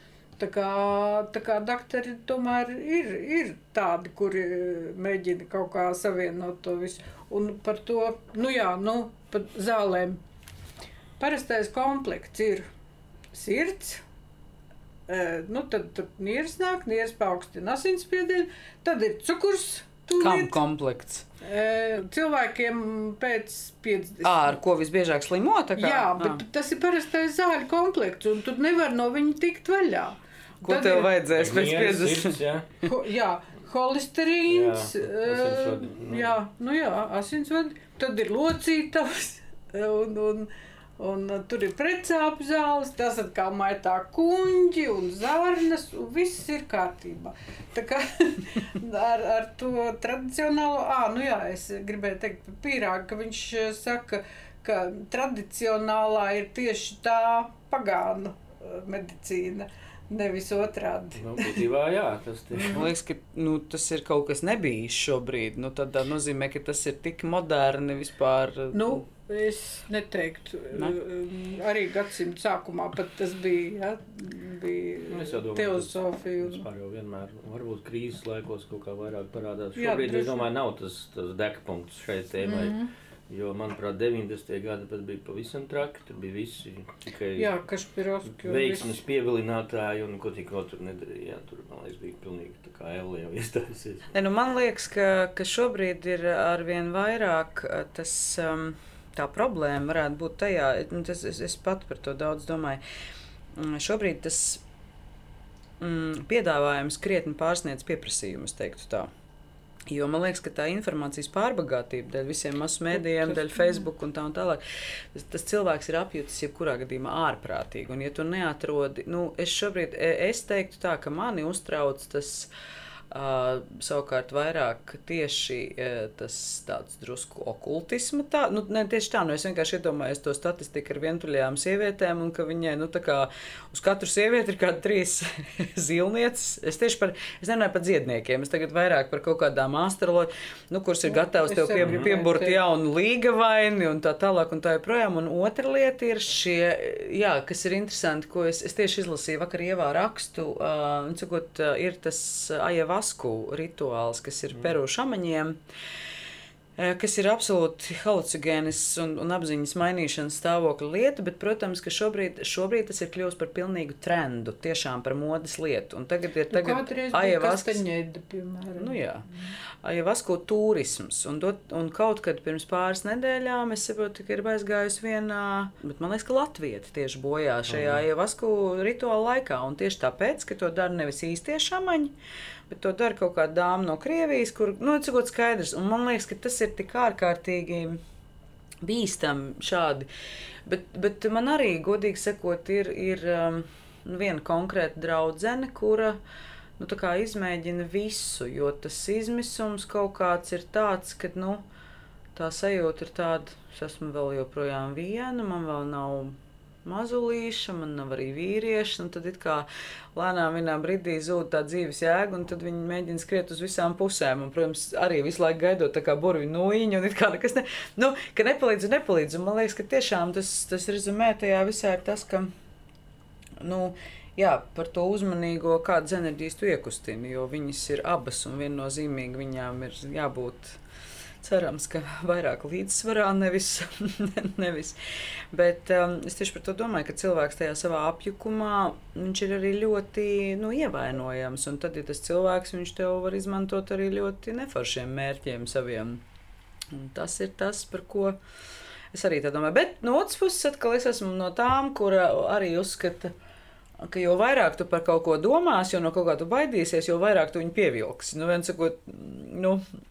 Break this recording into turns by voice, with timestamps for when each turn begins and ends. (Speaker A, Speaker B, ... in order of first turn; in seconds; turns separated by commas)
Speaker A: 0.4-10.2, Speaker A: 11.2-12.7, Speaker A: 13.3-14.0, Speaker A: 15.1-20.6, Speaker B: 20.2-21.2, Speaker A: 21.4-24.6, Speaker B: 24.2-26.4, Speaker A: 25.8-31.1, Speaker B: 30.6-32.4, Speaker C: 31.3-32.8, Speaker A: 32.8-61.6, Speaker C: 34.5-36.3, Speaker C: 61.2-62.9, Speaker A: 62.5-62.9, Speaker B: 62.7-69.0, Speaker A: 68.7-76.7, Speaker C: 75.1-82.8, Speaker A: 79.8-80.5, Speaker A: 82.4-82.9, Speaker C: 83.3-87.5, Speaker A: 87.3-89.0, Speaker C: 88.3-94.1, Speaker B: 94.1-102.8, Speaker B: 103.5-104.6, Speaker B: 105.8-109.1, Speaker B: 109.9-114.6, Speaker A: 113.0-113.8, Speaker B: 115.1-122.5, Speaker B: 123.1-155.6, Speaker A: 141.1-142.6, Speaker C: 141.8-142.1, Speaker B: 156.8-167.8, Speaker A: 166.5-169.0, Speaker B: 168.8-169.2, Speaker B: 169.8-182.1, Speaker C: 177.7-178.0, Speaker B: 182.7-188.0, Speaker B: 188.8-190.1, Speaker B: 190.7-196.2, Speaker B: 196.8-201.6, Speaker B: 202.3-222.5, Speaker B: 223.6-230.8, Speaker B: 231.4-235.0, Speaker B: 235.5-246.2, Speaker B: 246.9-248.4, Speaker B: 249.1-253.3, Speaker B: 254.0-259.8